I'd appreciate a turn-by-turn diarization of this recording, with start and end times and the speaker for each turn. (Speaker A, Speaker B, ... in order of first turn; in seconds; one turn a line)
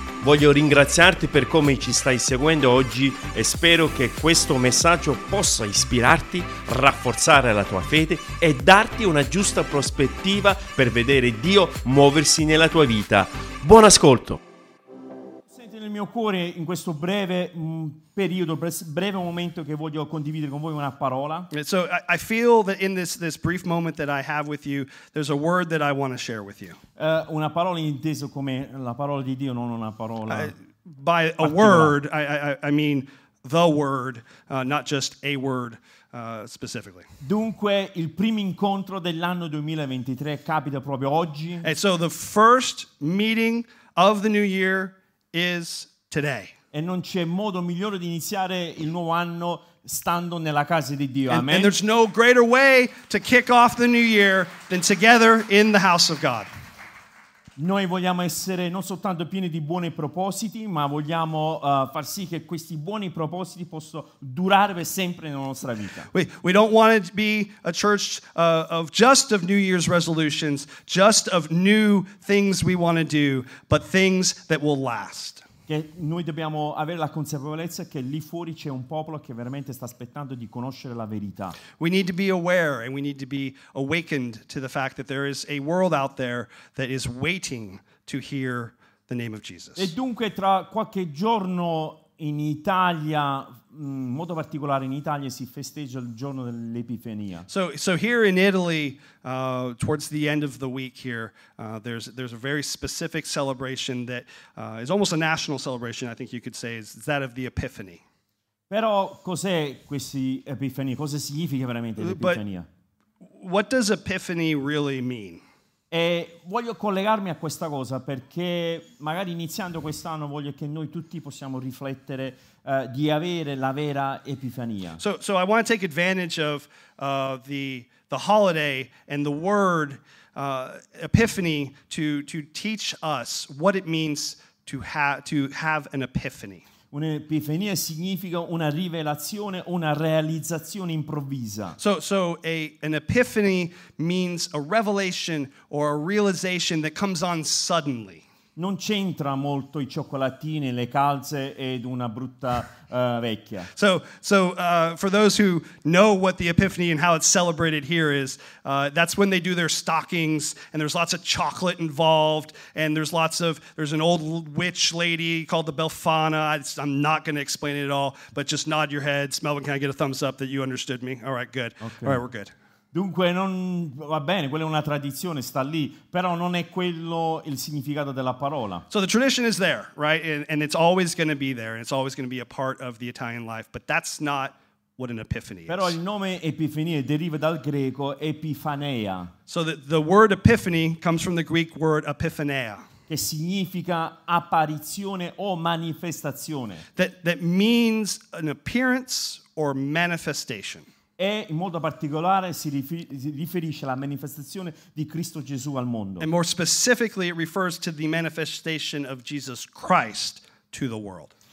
Speaker A: 0.2-14.4
Speaker B: 15.5-21.5
Speaker C: 21.5-26.8
Speaker B: 27.0-30.5
Speaker C: 30.3-37.1
Speaker B: 31.4-31.9
Speaker B: 37.2-41.7
Speaker C: 41.6-46.5
Speaker B: 46.7-51.7
Speaker C: 51.3-56.5
Speaker B: 57.6-66.1
Speaker C: 66.1-75.5
Speaker B: 75.7-81.6
Speaker C: 81.8-89.9
Speaker B: 89.8-97.5
Speaker C: 97.5-108.0
Speaker B: 108.7-112.7
Speaker C: 112.0-112.4
Speaker C: 113.2-115.4
Speaker B: 115.9-125.0
Speaker C: 125.0-136.7
Speaker B: 136.9-141.8
Speaker C: 141.8-148.2
Speaker B: 148.6-153.7
Speaker C: 153.8-172.5
Speaker B: 171.8-172.2
Speaker B: 172.9-178.8
Speaker C: 178.9-186.0
Speaker B: 185.7-189.3
Speaker C: 189.5-192.9
Speaker B: 193.1-196.8
Speaker C: 197.0-200.9
Speaker B: 201.2-206.3
Speaker C: 206.2-211.3